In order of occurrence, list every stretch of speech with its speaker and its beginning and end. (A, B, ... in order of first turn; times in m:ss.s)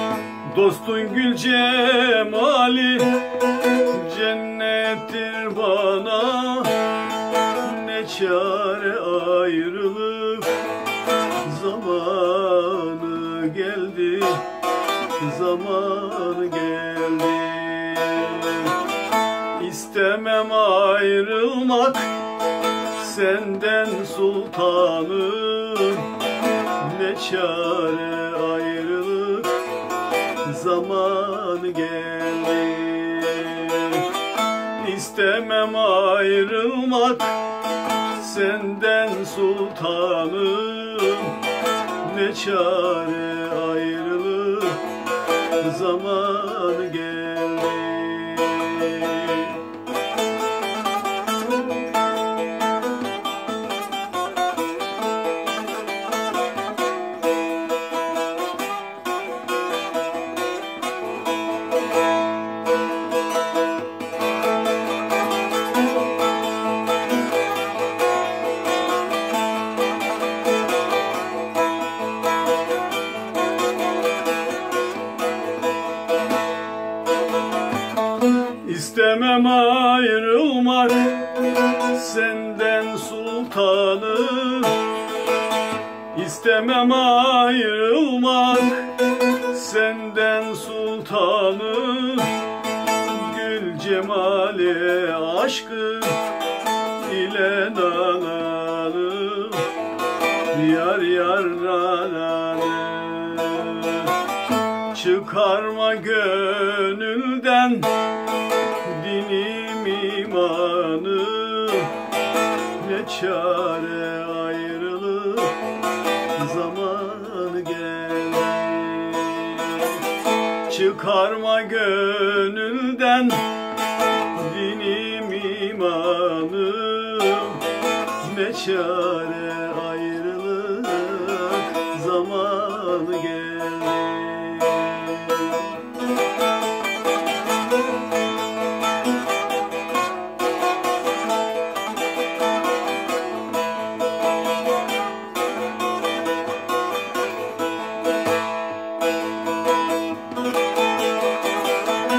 0:00.4-0:10.7 A
0:11.4-0:14.5 A
0:15.2-0:18.8 A
0:19.4-0:22.2 A
0:22.9-0:26.2 A
0:26.8-0:29.7 A
0:30.4-0:37.5 A
0:38.1-0:45.0 A
0:45.6-0:49.6 A
1:18.6-1:24.9 A
1:26.1-1:36.3 A
1:37.0-1:39.8 A
1:40.5-1:44.2 A
1:44.9-1:48.0 A
1:48.7-1:52.0 A
1:52.8-1:55.7 A
1:56.3-2:00.0 A
2:00.7-2:03.6 A
2:04.3-2:15.7 A